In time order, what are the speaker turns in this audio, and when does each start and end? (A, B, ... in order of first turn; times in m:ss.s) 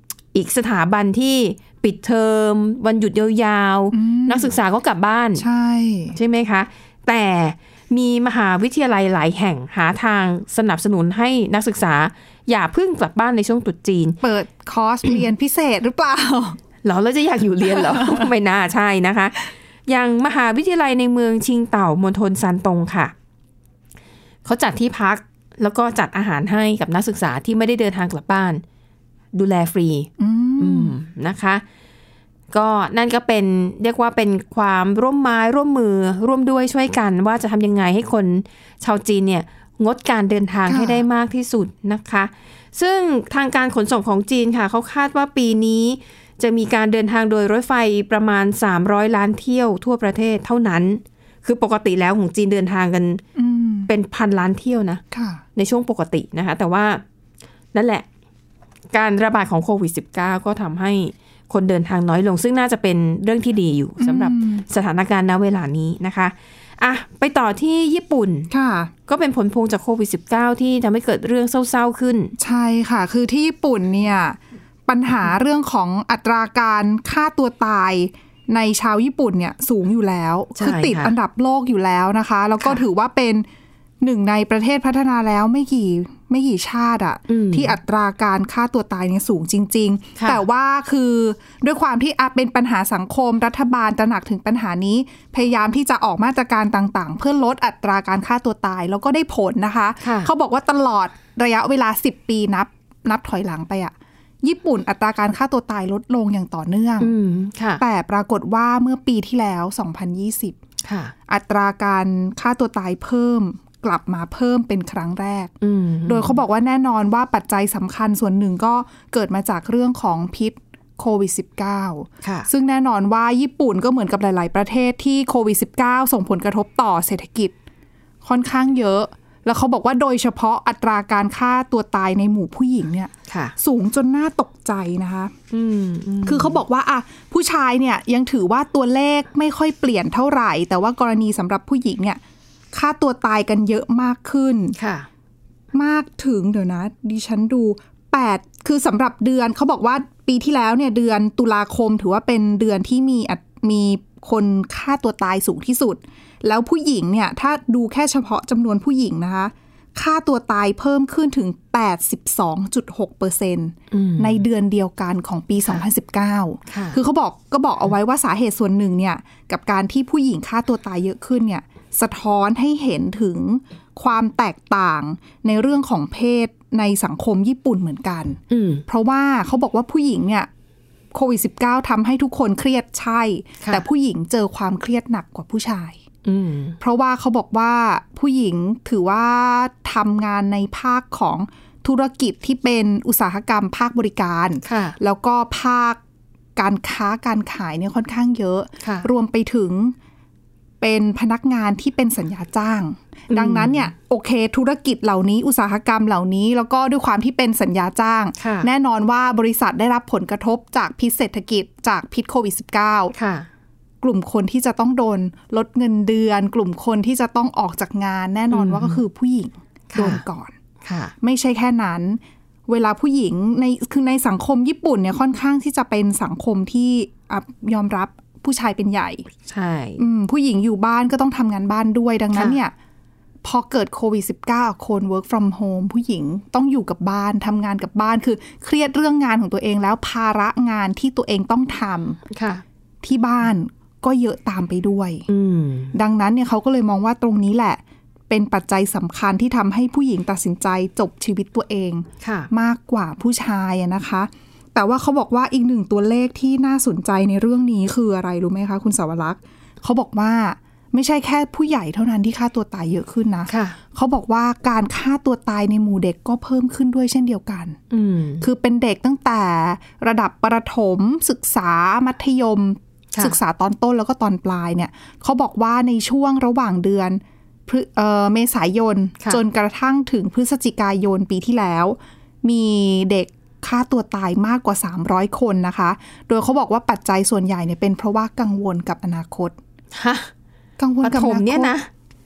0:00.3-0:05.4 A
0:03.9-0:04.5 B
0:05.4-0:06.2 B
0:06.1-0:14.2 A
0:14.2-0:16.6 B
0:16.8-0:19.4 A
0:17.6-0:18.3 B
0:19.9-0:23.1 A
0:24.4-0:28.6 A
0:29.3-0:31.6 A
0:30.2-0:30.9 B
0:32.5-0:53.2 A
0:40.7-0:41.0 B
0:53.4-0:53.9 B
0:53.9-0:55.0 A
0:55.1-0:55.4 B
0:55.6-0:57.0 A
0:57.7-0:58.0 A
0:58.9-1:08.5 A
1:04.0-1:04.6 B
1:08.5-1:08.9 B
1:09.1-1:12.3 A
1:12.4-1:23.5 B
1:20.6-1:21.1 A
1:24.0-1:47.1 B
1:27.3-1:27.8 A
1:30.2-1:30.4 A
1:40.0-1:40.3 A
1:47.0-1:47.8 A
1:47.8-1:50.6 B
1:50.8-1:51.1 A
1:51.3-1:55.5 B
1:55.6-1:56.4 A
1:56.0-2:07.5 B
2:02.2-2:02.5 A
2:08.2-2:15.3 B
2:13.3-2:13.6 A
2:15.5-2:16.6 A
2:16.2-2:22.2 B
2:22.7-2:24.8 B
2:24.8-2:25.1 A
2:25.7-3:00.5 B
2:43.9-2:44.4 A
2:46.7-2:47.0 A
2:58.5-2:58.8 A
3:01.1-3:06.0 B
3:06.2-3:06.8 A
3:06.8-3:16.0 B
3:14.6-3:15.0 A
3:16.6-3:19.9 B
3:18.8-3:19.1 A
3:20.8-3:33.1 B
3:23.3-3:23.9 A
3:28.4-3:28.7 A
3:33.1-3:33.5 A
3:34.0-3:40.5 B
3:38.5-3:39.0 A
3:39.9-3:40.2 A
3:40.8-3:41.1 A
3:41.2-3:49.2 B
3:49.4-3:50.0 A
3:50.0-3:52.7 B
3:52.3-3:52.6 A
3:53.4-4:02.2 B
4:02.3-4:02.6 A
4:03.0-4:05.2 B
4:05.3-4:05.9 A
4:05.9-4:27.8 B
4:12.2-4:12.5 A
4:23.5-4:23.8 A
4:27.9-4:28.4 A
4:28.4-4:49.6 B
4:49.9-4:50.3 A
4:50.8-4:51.7 B
4:51.0-4:51.9 A